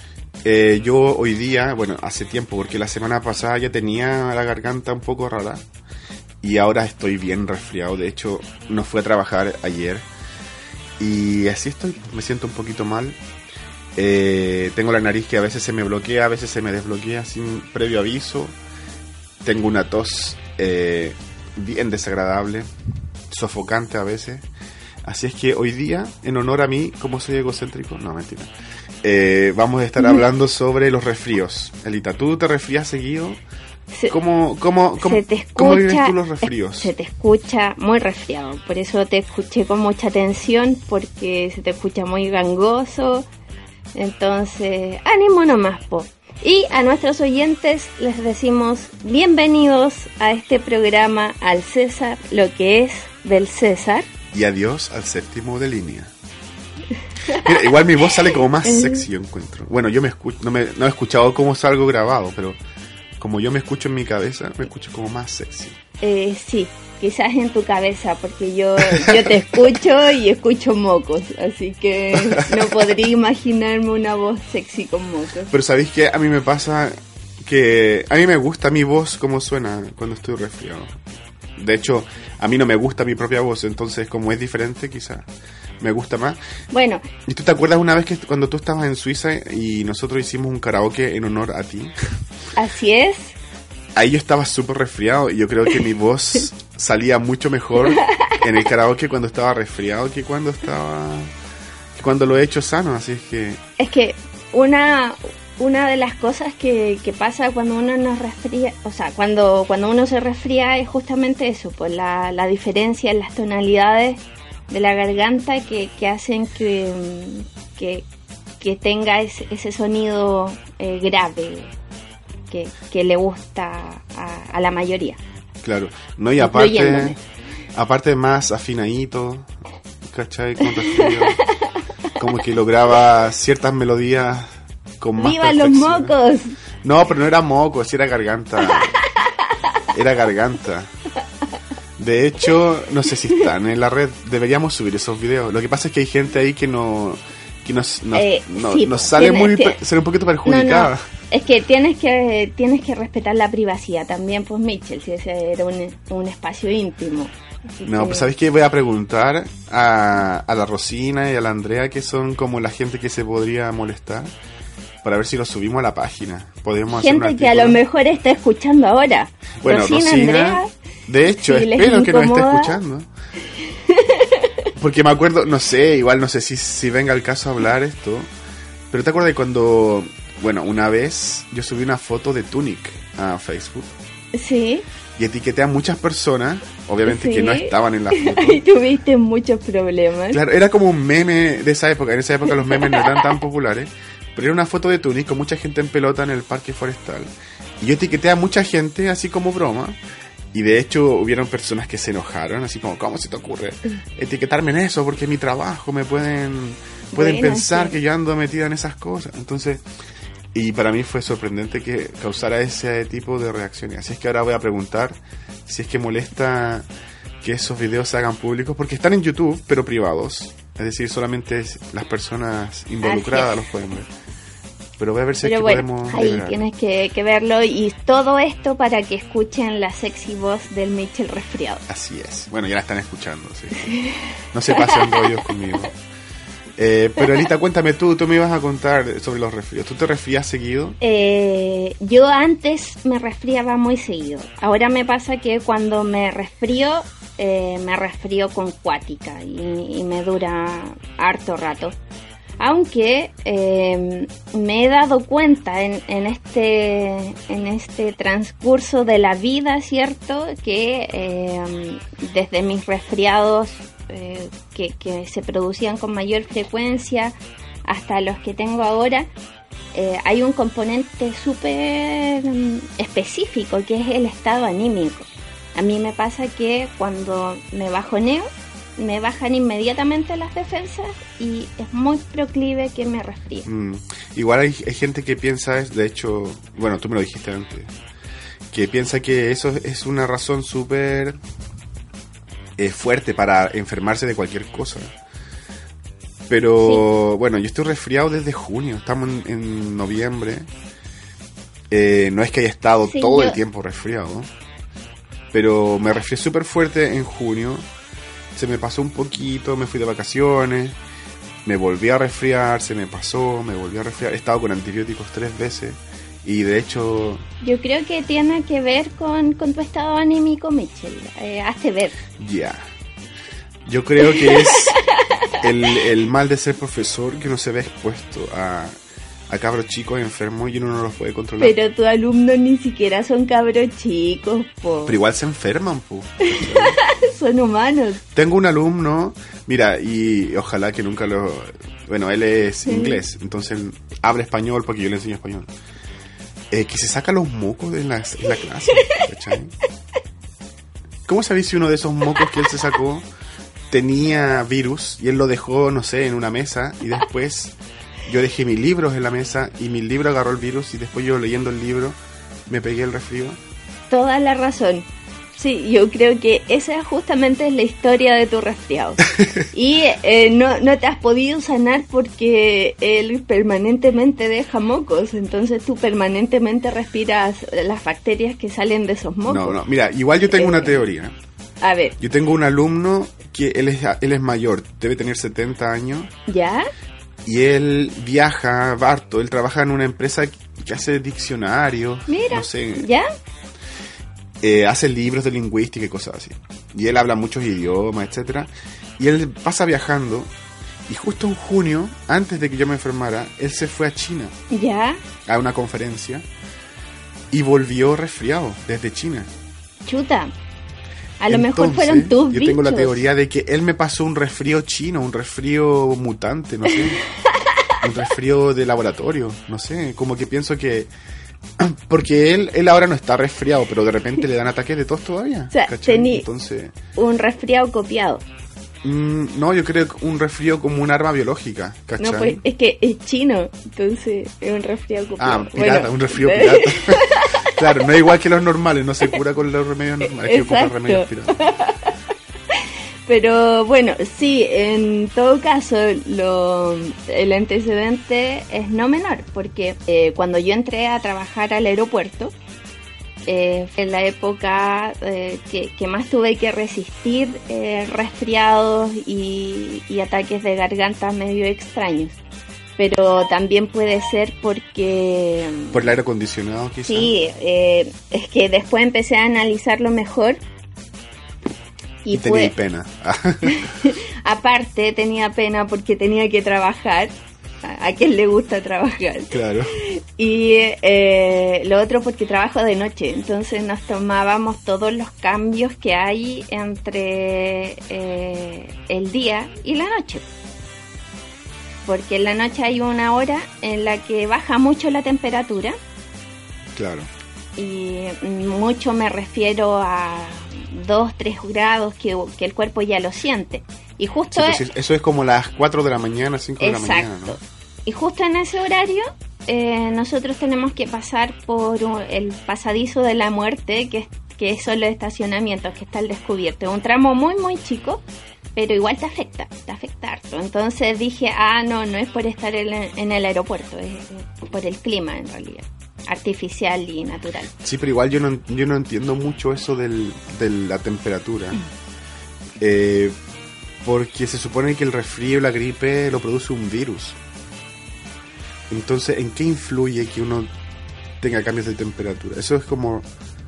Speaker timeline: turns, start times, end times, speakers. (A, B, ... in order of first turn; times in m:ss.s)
0:00.4-0:05.6 A
0:06.4-0:10.1 A
0:11.0-0:13.2 A
0:14.0-0:18.6 A
0:19.4-0:22.7 A
0:23.3-0:24.5 A
0:25.0-0:28.5 A
0:29.0-0:33.4 A
0:34.1-0:36.9 A
0:35.0-0:43.2 B
0:44.0-0:54.1 B
0:54.3-0:56.1 A
0:57.4-1:02.6 A
0:58.6-0:59.1 B
1:03.2-1:05.8 A
1:06.0-1:15.5 B
1:08.8-1:09.4 A
1:12.1-1:12.8 A
1:15.5-1:21.0 A
1:21.6-1:25.3 A
1:25.8-1:26.4 A
1:26.7-1:27.1 B
1:27.3-1:32.0 A
1:32.6-1:33.4 B
1:34.0-1:41.3 A
1:37.9-1:38.4 B
1:42.0-1:43.6 A
1:43.8-1:54.2 B
1:54.7-1:58.0 B
1:58.6-2:01.7 B
2:02.5-2:05.2 B
2:05.6-2:07.2 A
2:06.4-2:07.2 B
2:07.8-2:09.5 A
2:10.0-2:11.4 A
2:12.2-2:16.2 A
2:15.2-2:16.6 B
2:16.8-2:19.0 A
2:19.9-2:20.9 A
2:22.0-2:31.1 A
2:28.1-2:29.8 B
2:30.5-2:38.3 B
2:37.8-2:44.3 A
2:45.0-2:47.8 A
2:46.9-2:50.7 B
2:49.6-2:53.1 A
2:51.4-2:52.8 B
2:53.9-2:54.5 B
2:54.8-2:58.3 A
2:58.9-3:03.9 A
3:04.3-3:04.8 B
3:05.2-3:08.6 A
3:07.1-3:10.4 B
3:10.3-3:20.0 A
3:12.8-3:13.2 B
3:20.5-3:29.8 A
3:27.1-3:28.0 B
3:30.5-3:36.9 A
3:37.4-3:44.1 A
3:43.0-3:43.5 B
3:45.0-3:46.6 A
3:45.4-3:51.8 B
3:51.9-3:53.9 A
3:53.8-3:55.5 B
3:54.5-3:55.9 A
3:56.8-4:01.0 A
4:01.0-4:12.0 B
4:12.6-4:27.4 B
4:27.9-4:29.3 B
4:29.9-4:43.7 B
4:43.7-4:47.9 A
4:48.7-4:51.4 A
4:52.8-4:55.1 A
4:56.5-5:00.7 A
5:01.9-5:04.5 A
5:03.1-5:03.6 B
5:05.5-5:07.8 A
5:08.6-5:11.0 A
5:11.6-5:17.4 A
5:17.6-5:22.2 B
5:22.4-5:22.8 A
5:23.9-5:25.0 A
5:24.2-5:25.2 B
5:25.6-5:29.0 A
5:29.5-5:31.8 A
5:31.6-5:35.2 B
5:35.1-5:37.0 A
5:36.5-5:38.2 B
5:38.3-5:45.7 A
5:42.8-5:43.2 B
5:46.7-5:49.7 A
5:51.3-5:53.3 A
5:53.9-6:02.2 A
6:02.7-6:03.6 A
6:04.1-6:19.8 B
6:19.5-6:21.4 A
6:20.5-6:21.0 B
6:21.8-6:22.2 B
6:22.2-6:26.3 A
6:26.5-6:26.9 B
6:27.4-6:33.1 A
6:32.3-6:33.3 B
6:34.6-6:40.5 A
6:41.1-6:44.6 A
6:44.7-6:45.2 B
6:45.4-6:46.5 A
6:47.5-6:49.5 A
6:50.1-6:50.5 B
6:51.4-6:53.2 B
6:51.5-6:57.2 A
6:58.0-7:01.1 A
7:01.8-7:07.0 A
7:05.7-7:06.5 B
7:07.2-7:08.4 B
7:09.0-7:12.6 A
7:12.2-7:17.8 B
7:15.4-7:21.5 A
7:20.4-7:22.1 B
7:22.7-7:32.5 B
7:33.5-7:42.4 B
7:43.0-7:46.0 B
7:45.9-7:47.3 A
7:47.1-7:50.6 B
7:52.2-7:52.7 B
7:52.3-7:53.9 A
7:53.7-7:57.3 B
7:57.8-8:10.4 B
7:59.5-7:59.9 A
8:12.1-8:16.0 B
8:17.0-8:17.3 A
8:17.8-8:24.8 B
8:24.5-8:27.6 A
8:26.8-8:27.5 B
8:28.1-8:38.2 B
8:38.8-8:47.7 B
8:47.8-8:51.8 A
8:52.8-8:53.4 A
8:54.0-8:57.4 A
8:58.9-9:00.7 A
9:01.4-9:03.3 A